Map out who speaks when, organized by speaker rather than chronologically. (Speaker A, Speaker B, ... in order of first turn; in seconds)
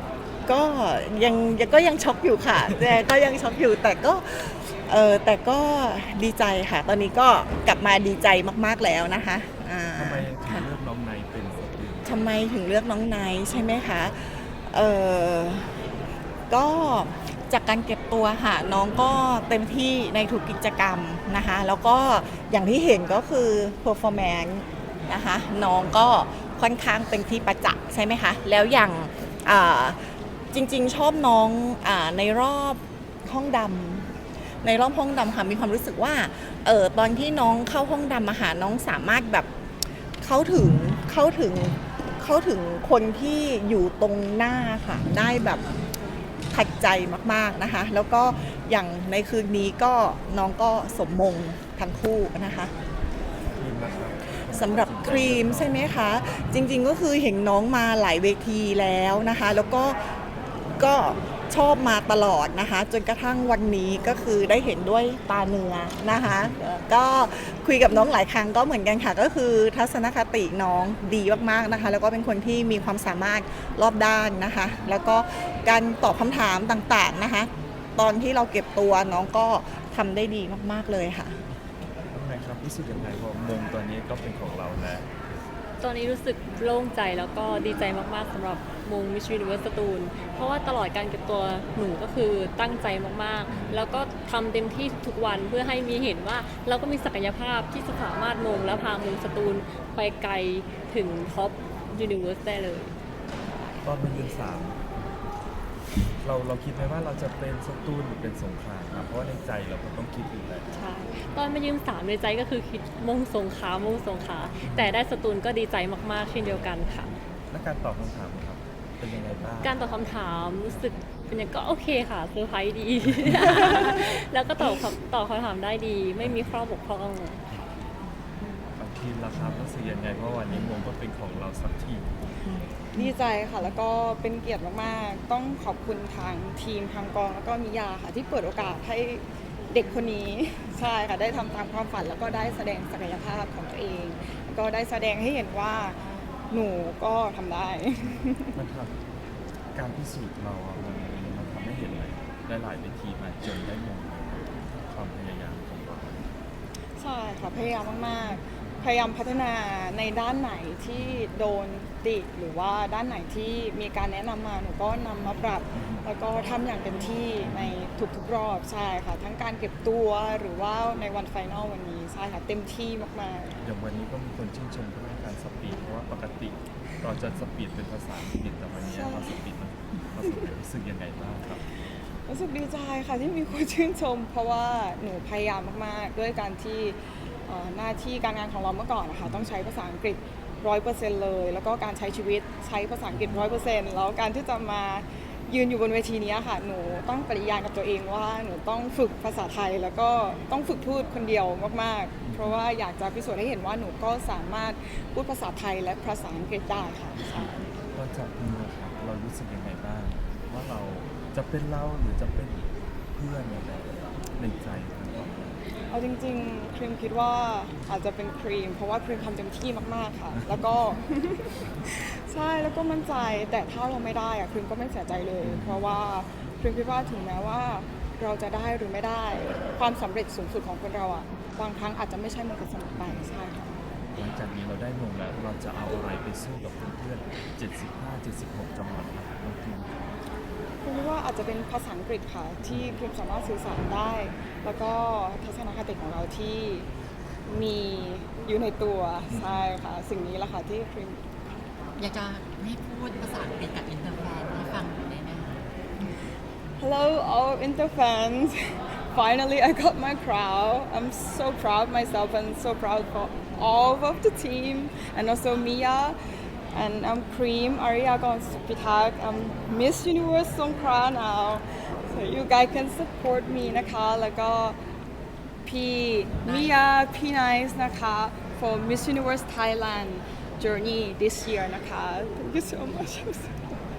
Speaker A: 0.5-10.7, 12.1-15.8, 16.5-30.0, 30.5-39.5, 40.2-45.6, 46.5-52.7, 54.5-60.0, 60.8-81.4, 132.4-133.2
Speaker B: 9.9-12.2, 53.5-56.0, 82.1-85.1, 93.5-93.8, 103.8-104.8, 106.2-110.7, 114.6-115.0, 116.4-116.8, 117.5-119.7, 126.2-126.6, 128.8-132.1, 142.3-142.6, 148.5-148.9, 149.7-156.3, 160.9-161.3, 165.7-166.1, 167.4-167.8, 173.6-181.7, 193.2-193.5, 202.2-202.6, 207.2-215.6, 225.4-225.9, 233.0-233.3, 234.1-240.0, 242.7-243.0, 249.3-249.7
Speaker C: 85.8-103.0, 110.7-117.1, 119.6-127.4
Speaker D: 132.9-146.0, 146.5-148.6, 157.0-173.6, 178.8-179.4, 182.3-207.7, 215.9-233.8, 240.8-246.9, 247.5-251.2, 256.8-266.2, 266.7-274.8, 275.6-283.7
Speaker E: 252.0-255.7, 276.4-276.8